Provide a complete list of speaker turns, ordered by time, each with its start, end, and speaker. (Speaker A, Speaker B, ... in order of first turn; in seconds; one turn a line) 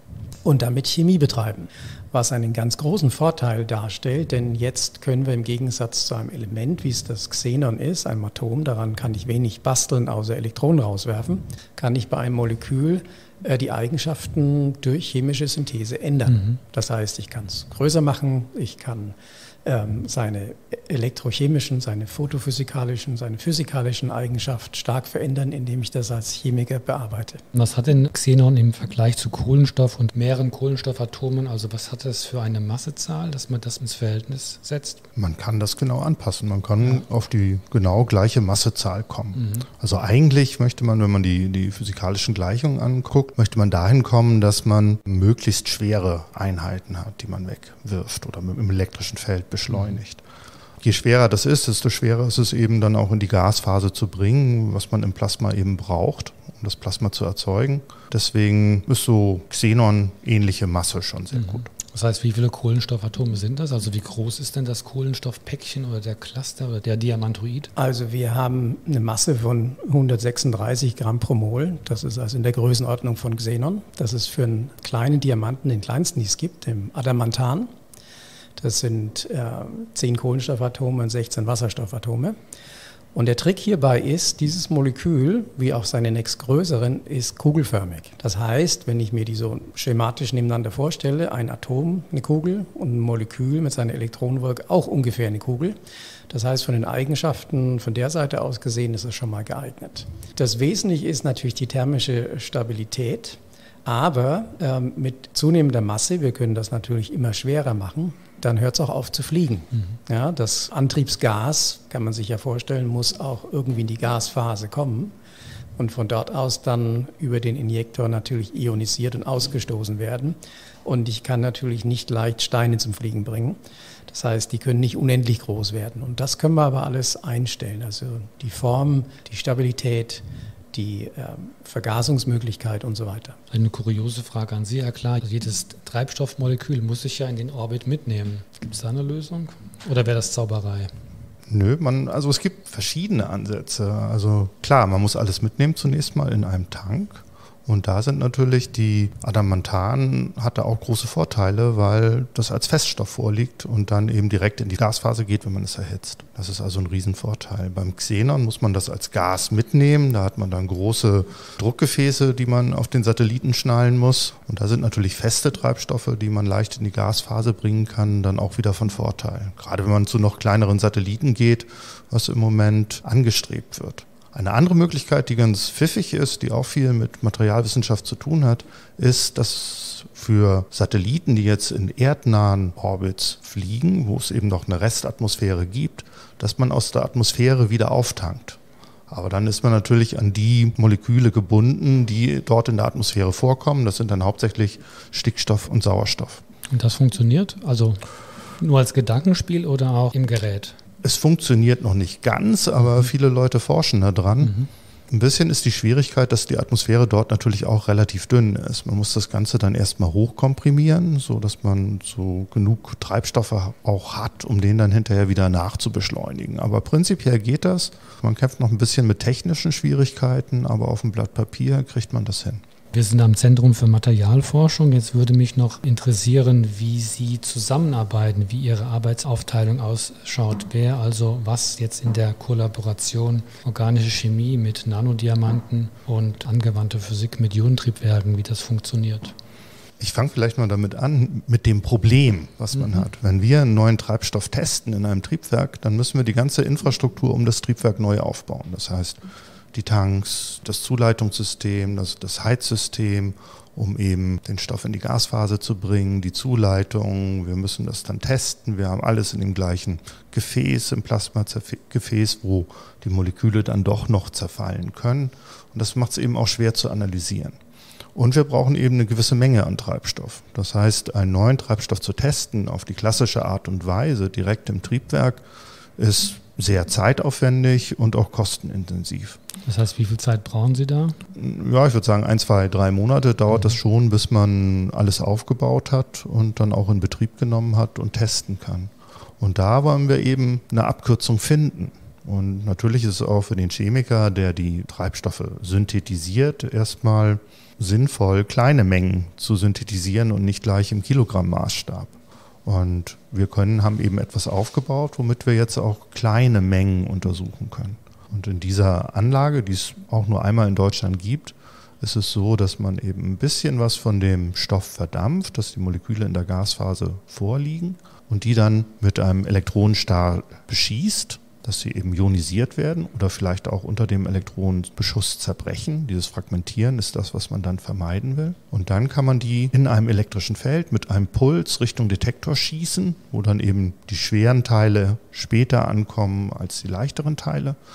Speaker A: 0.4-27.4
Speaker B: 27.5-35.0
Speaker C: 35.1-50.2
Speaker B: 39.4-39.6
Speaker C: 50.8-61.7
Speaker B: 61.5-67.7
Speaker A: 67.8-77.7
Speaker A: 78.6-82.4
Speaker A: 83.1-95.8
Speaker A: 96.3-115.1
Speaker A: 115.8-123.6
Speaker A: 124.1-133.4
Speaker B: 133.5-140.9
Speaker C: 141.5-196.4
Speaker B: 196.7-198.0
Speaker B: 198.6-200.8
Speaker C: 201.0-204.5
Speaker B: 204.4-204.7
Speaker C: 205.1-222.6
Speaker B: 222.9-239.3
Speaker C: 240.0-249.2
Speaker C: 249.7-267.6
Speaker C: 268.1-275.4
Speaker C: 276.0-279.4
Speaker B: 279.6-281.2
Speaker C: 281.4-337.8